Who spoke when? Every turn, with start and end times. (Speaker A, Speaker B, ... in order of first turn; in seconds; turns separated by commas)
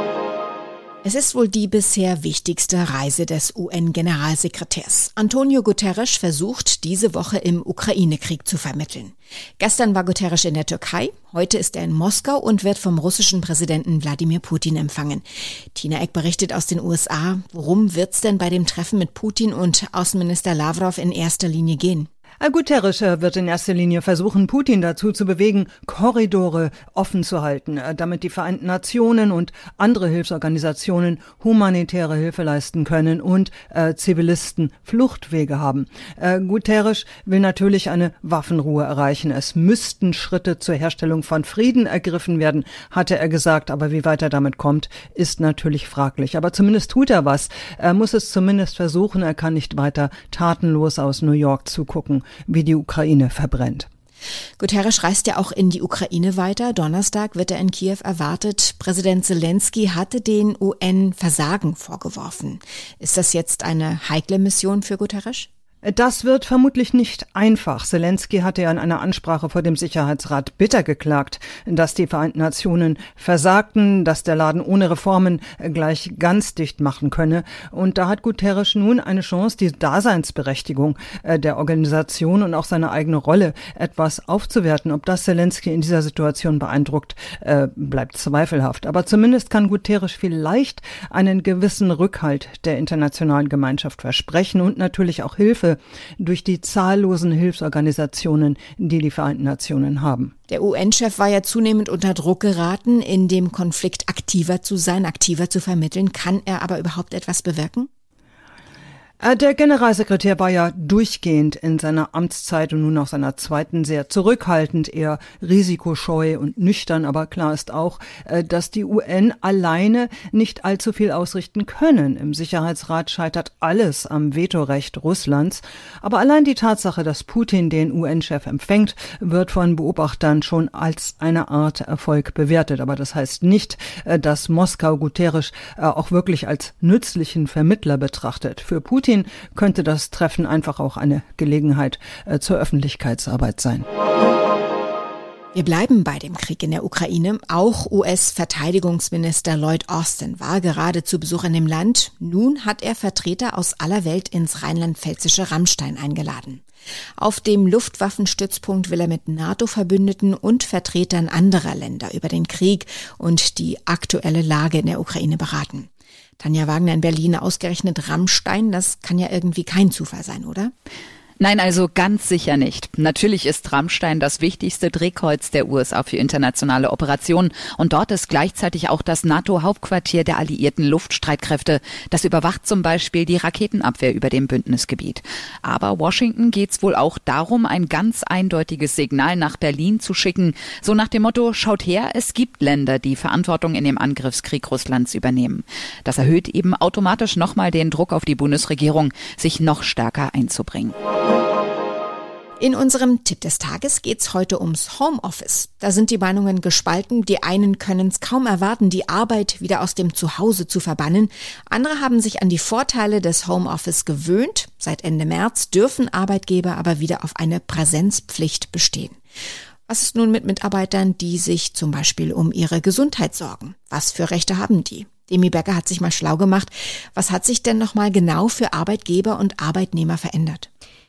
Speaker A: 1.0-22.1, Speaker B: 22.4-53.9, Speaker A: 54.6-65.5, Speaker B: 65.8-100.3, Speaker A: 100.5-107.9, Speaker B: 109.2-143.8, Speaker A: 145.5-156.6, Speaker A: 157.2-165.9, Speaker A: 166.4-170.7, Speaker C: 171.4-200.9, Speaker A: 202.6-219.2, Speaker A: 219.9-230.7